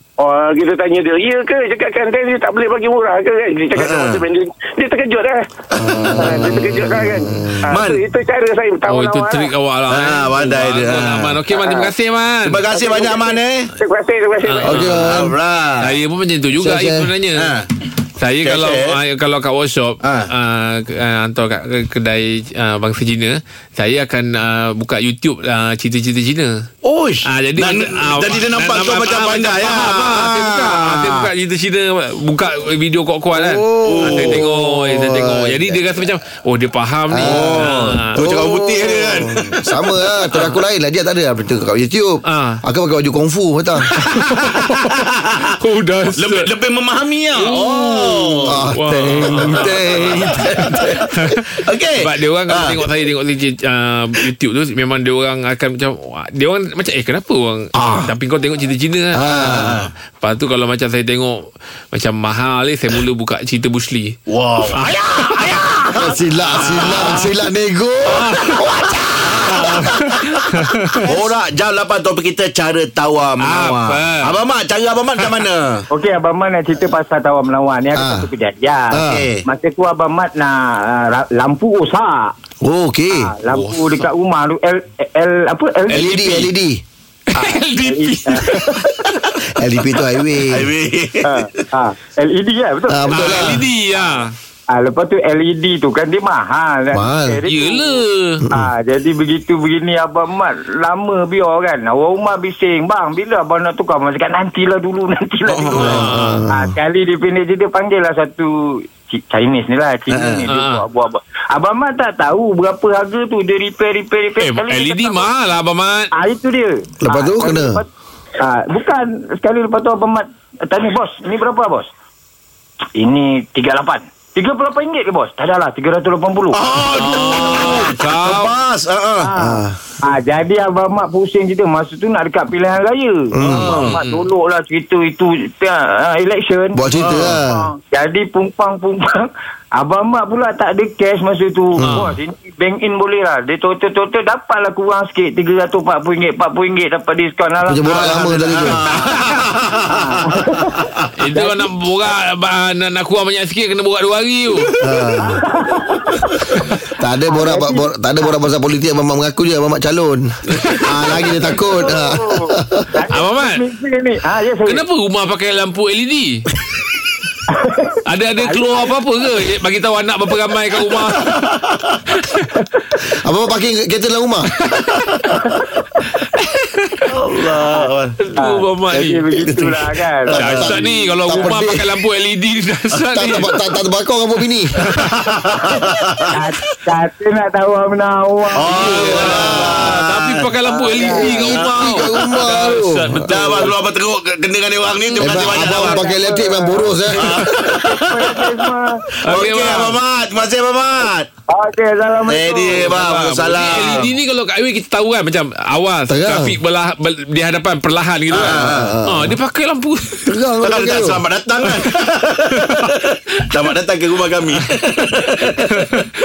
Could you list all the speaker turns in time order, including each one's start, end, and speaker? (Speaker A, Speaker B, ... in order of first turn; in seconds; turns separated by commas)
Speaker A: 0.2-9.5, Speaker B: 3.8-4.2, Speaker C: 5.8-7.6, Speaker B: 6.2-6.6, Speaker B: 7.7-8.0, Speaker D: 8.9-12.6, Speaker B: 9.9-11.4, Speaker A: 11.5-11.9, Speaker B: 12.4-13.7, Speaker A: 12.7-14.9, Speaker D: 14.4-15.0, Speaker C: 14.7-15.4, Speaker B: 14.8-15.9, Speaker D: 15.8-17.5, Speaker C: 16.6-17.1, Speaker B: 17.4-17.7, Speaker D: 18.2-26.7, Speaker B: 18.4-19.0, Speaker B: 20.0-20.3, Speaker B: 26.8-31.3, Speaker D: 27.2-38.4, Speaker C: 33.3-36.0, Speaker B: 33.9-34.5, Speaker C: 37.1-43.9, Speaker B: 37.2-39.7, Speaker D: 42.3-42.6, Speaker D: 43.9-45.0, Speaker B: 44.1-45.5, Speaker D: 45.6-46.5, Speaker B: 46.1-52.8, Speaker D: 47.4-51.5, Speaker C: 48.5-50.5, Speaker D: 52.0-64.2, Speaker B: 57.8-58.1, Speaker C: 59.2-59.8, Speaker B: 59.3-59.9, Speaker B: 64.3-67.2, Speaker D: 64.7-65.9, Speaker C: 66.0-70.1, Speaker D: 66.4-67.3, Speaker D: 68.1-68.7, Speaker B: 68.2-68.6, Speaker B: 69.2-69.6, Speaker D: 69.4-71.1, Speaker B: 71.0-75.8, Speaker D: 73.4-74.3, Speaker E: 75.9-82.3, Speaker C: 78.0-78.3, Speaker C: 78.9-79.3, Speaker B: 79.0-79.4, Speaker C: 82.6-83.3, Speaker E: 83.2-86.2, Speaker D: 83.5-84.1, Speaker D: 85.9-86.5, Speaker C: 85.9-86.8, Speaker D: 87.3-88.8, Speaker E: 87.4-89.0, Speaker C: 89.6-90.7, Speaker B: 90.4-91.7, Speaker E: 91.2-93.6, Speaker C: 92.9-93.7, Speaker D: 93.1-94.3, Speaker E: 94.7-115.3, Speaker C: 96.9-97.4, Speaker D: 97.5-98.5, Speaker C: 98.5-98.7, Speaker B: 105.5-106.0, Speaker D: 105.8-106.4, Speaker C: 105.8-106.7, Speaker B: 110.1-110.5, Speaker D: 110.5-110.8, Speaker D: 114.4-116.1, Speaker E: 116.1-117.9, Speaker C: 117.0-117.8, Speaker E: 118.4-121.9, Speaker E: 123.0-126.6, Speaker B: 126.5-129.3, Speaker D: 126.9-128.5, Speaker E: 129.2-148.7, Speaker C: 129.4-129.8, Speaker C: 133.4-133.9, Speaker B: 133.4-134.0, Speaker D: 133.9-134.3, Speaker C: 136.7-137.7, Speaker B: 137.0-137.4, Speaker D: 141.8-142.2, Speaker C: 147.7-148.8, Speaker B: 147.9-150.2, Speaker E: 149.8-151.7, Speaker D: 151.2-154.7, Speaker C: 154.8-155.4, Speaker E: 155.2-156.3, Speaker C: 157.0-162.9, Speaker E: 157.3-158.3, Speaker D: 160.5-160.8, Speaker E: 161.2-164.8, Speaker D: 163.1-163.6, Speaker D: 164.7-166.4, Speaker E: 167.5-168.9, Speaker D: 168.1-171.5, Speaker B: 171.4-172.0, Speaker D: 172.2-172.5, Speaker C: 173.2-174.5, Speaker D: 176.4-176.9, Speaker B: 177.1-178.2, Speaker D: 178.2-179.5, Speaker E: 178.4-180.6, Speaker D: 180.3-183.6, Speaker C: 180.3-181.9, Speaker C: 183.1-184.8, Speaker D: 184.8-185.1, Speaker B: 185.1-186.3, Speaker E: 186.3-189.2, Speaker B: 188.6-190.5, Speaker D: 188.7-193.7, Speaker C: 188.9-190.0, Speaker E: 190.7-191.5, Speaker C: 191.2-193.7, Speaker B: 193.3-196.1, Speaker C: 195.2-197.2, Speaker E: 195.7-197.0, Speaker B: 197.1-198.6, Speaker D: 197.2-197.5, Speaker E: 197.6-199.0, Speaker D: 199.2-200.0, Speaker B: 199.3-201.3, Speaker E: 201.5-203.0, Speaker B: 202.3-204.1, Speaker D: 203.0-210.3, Speaker C: 206.1-206.6, Speaker B: 208.3-208.9, Speaker C: 208.4-209.4, Speaker C: 210.3-211.2, Speaker B: 210.6-215.9, Speaker D: 212.6-212.9, Speaker D: 215.0-216.1